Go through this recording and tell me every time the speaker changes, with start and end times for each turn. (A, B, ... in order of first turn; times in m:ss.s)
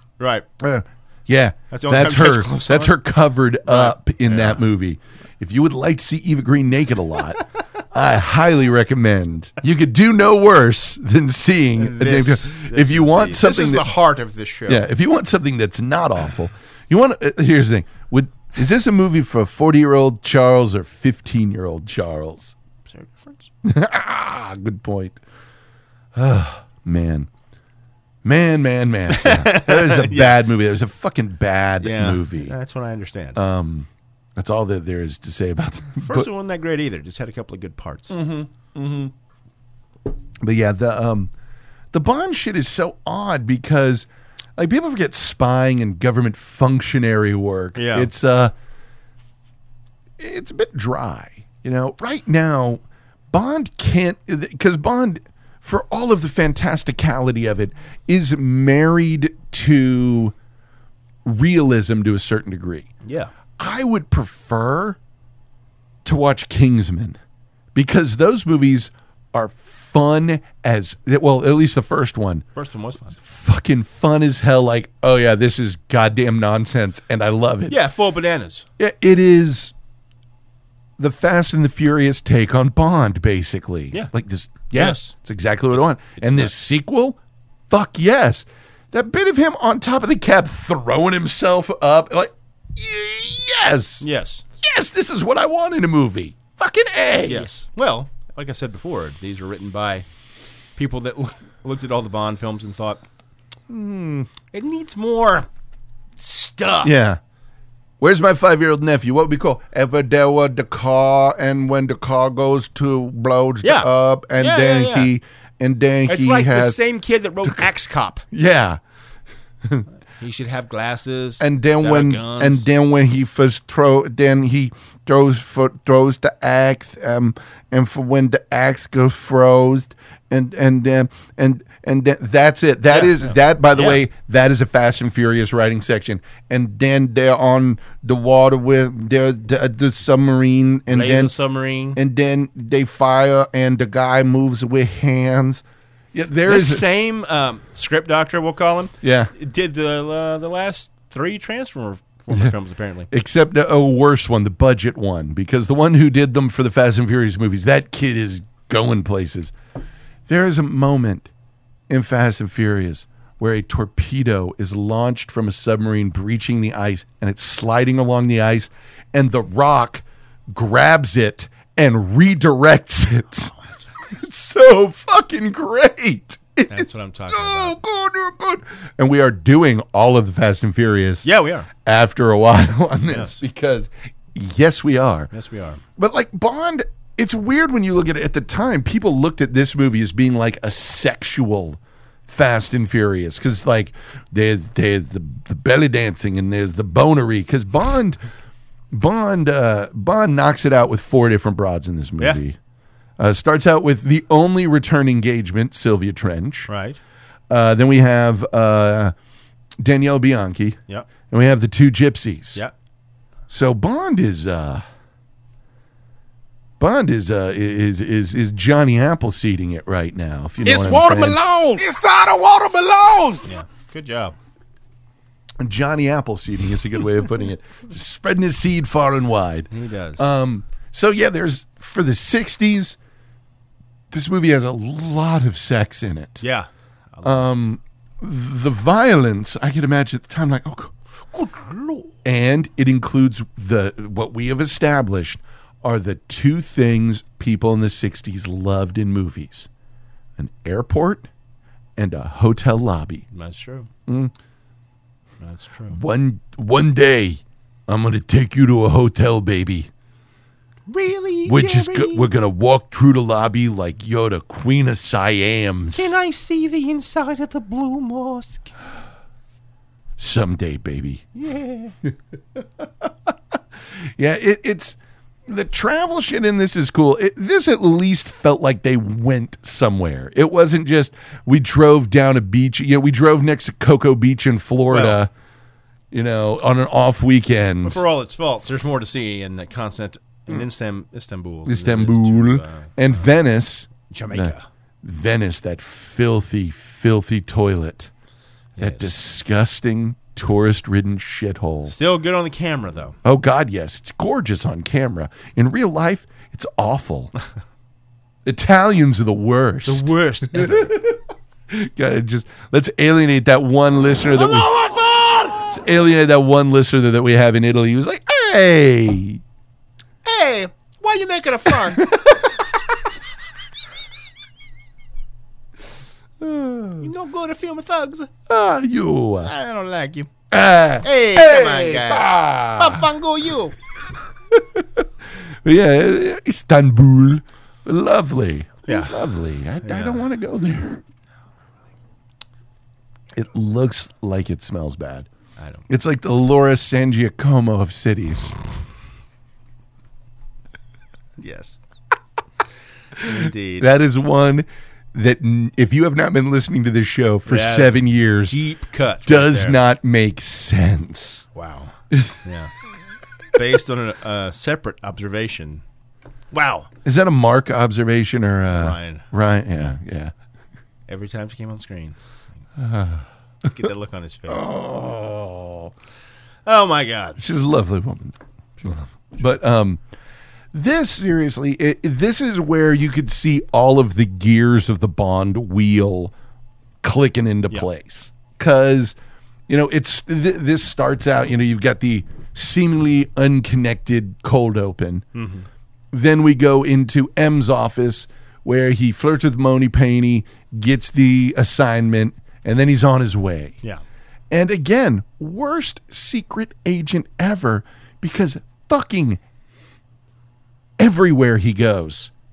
0:00.2-0:00.5 A
0:00.6-0:13.9 B
0:01.7-0:03.0 A
0:03.7-0:04.6 A
0:11.8-0:14.9 A
0:14.7-0:22.6 B
0:22.8-0:23.5 A
0:23.6-0:25.2 B
0:26.2-0:27.3 B
0:28.2-0:32.6 B
0:29.1-0:30.5 A
0:31.8-0:33.4 A
0:33.4-0:36.3 B
0:36.0-0:38.2 A
0:38.1-0:39.1 B
0:40.4-0:41.3 B
0:41.9-0:48.5 B
0:47.8-0:48.1 A
0:50.2-1:00.4 B
1:01.2-1:02.9 B
1:03.0-1:03.3 A
1:03.6-1:05.0 B
1:06.0-1:07.2 B
1:07.7-1:12.5 B
1:12.6-1:13.2 A
1:13.2-1:17.8 B
1:17.7-1:18.7 A
1:18.8-1:19.7 B
1:21.0-1:27.2 B
1:24.7-1:25.1 A
1:25.7-1:26.5 A
1:27.7-1:34.0 B
1:34.0-1:34.4 A
1:34.6-1:37.5 B
1:37.2-1:40.1 A
1:40.8-1:43.0 A
1:43.7-1:44.3 B
1:44.5-1:45.5 A
1:46.2-1:47.0 A
1:46.8-1:47.2 B
1:48.0-1:56.8 B
1:53.6-1:55.1 A
1:56.1-1:58.2 A
1:58.3-1:58.8 B
2:00.2-2:02.7 A
2:01.4-2:21.3 B
2:12.9-2:14.0 A
2:20.9-2:22.0 A
2:22.0-2:25.6 B
2:26.1-2:26.8 B
2:26.5-2:33.1 A
2:29.0-2:29.3 B
2:33.1-2:39.5 B
2:40.3-2:41.3 B
2:41.9-3:01.3 B
2:56.7-2:57.8 A
3:01.2-3:01.7 A
3:01.8-3:05.3 B
3:03.1-3:03.4 A
3:05.3-3:05.8 A
3:06.0-3:18.2 B
3:18.9-3:22.6 B
3:23.2-3:26.7 B
3:26.7-3:27.0 A
3:27.5-3:29.1 B
3:29.8-3:32.6 B
3:33.5-3:34.8 B
3:36.8-3:41.6 B
3:41.0-3:43.4 C
3:43.4-3:44.4 A
3:45.6-3:53.0 B
3:49.7-3:50.3 A
3:54.1-3:56.4 B
3:56.4-3:57.5 A
3:57.2-4:00.9 B
4:01.3-4:02.1 A
4:02.2-4:09.7 B
4:10.4-4:11.3 B
4:12.0-4:13.2 B
4:13.3-4:13.9 A
4:14.1-4:14.3 B
4:15.4-4:16.0 A
4:15.9-4:19.9 B
4:20.9-4:22.3 A
4:21.4-4:26.1 B
4:25.9-4:28.7 A
4:30.2-4:31.3 B
4:31.4-4:32.0 A
4:32.6-4:33.3 B
4:34.2-4:45.3 B
4:44.9-4:45.2 A
4:46.1-4:48.0 B
4:47.8-4:53.2 A
4:51.7-4:58.1 B
4:54.1-4:54.7 A
4:58.8-4:59.1 A
4:58.8-5:02.0 B
5:01.9-5:03.2 A
5:03.2-5:07.3 B
5:08.4-5:14.9 B
5:09.8-5:11.0 A
5:14.4-5:15.5 A
5:15.5-5:19.4 B
5:20.2-5:22.3 A
5:22.0-5:22.4 B
5:26.4-5:27.1 B
5:27.0-5:28.3 A
5:28.5-5:29.5 B
5:29.4-5:30.3 A
5:30.5-5:33.1 B
5:31.0-5:33.8 A
5:34.5-5:35.1 B
5:35.6-5:41.0 B
5:38.9-5:39.3 A
5:39.8-5:40.3 A
5:43.4-5:45.3 B
5:45.6-5:45.9 A
5:45.9-5:48.6 B
5:51.4-5:51.8 A
5:53.2-5:53.9 A
5:53.8-5:58.6 B
5:57.5-5:59.8 A
5:59.2-6:01.5 B
6:01.5-6:02.7 A
6:02.1-6:02.4 B
6:03.5-6:05.8 A
6:06.5-6:06.9 A
6:07.0-6:10.3 B
6:08.7-6:10.0 A
6:11.1-6:12.2 A
6:12.8-6:13.8 B
6:13.6-6:14.7 A
6:14.5-6:15.9 B
6:16.6-6:17.4 A
6:17.4-6:20.0 B
6:20.7-6:26.3 B
6:27.0-6:29.2 B
6:29.7-6:35.3 B
6:35.3-6:35.7 A
6:36.1-6:43.8 B
6:44.5-6:49.4 B
6:51.0-6:52.3 B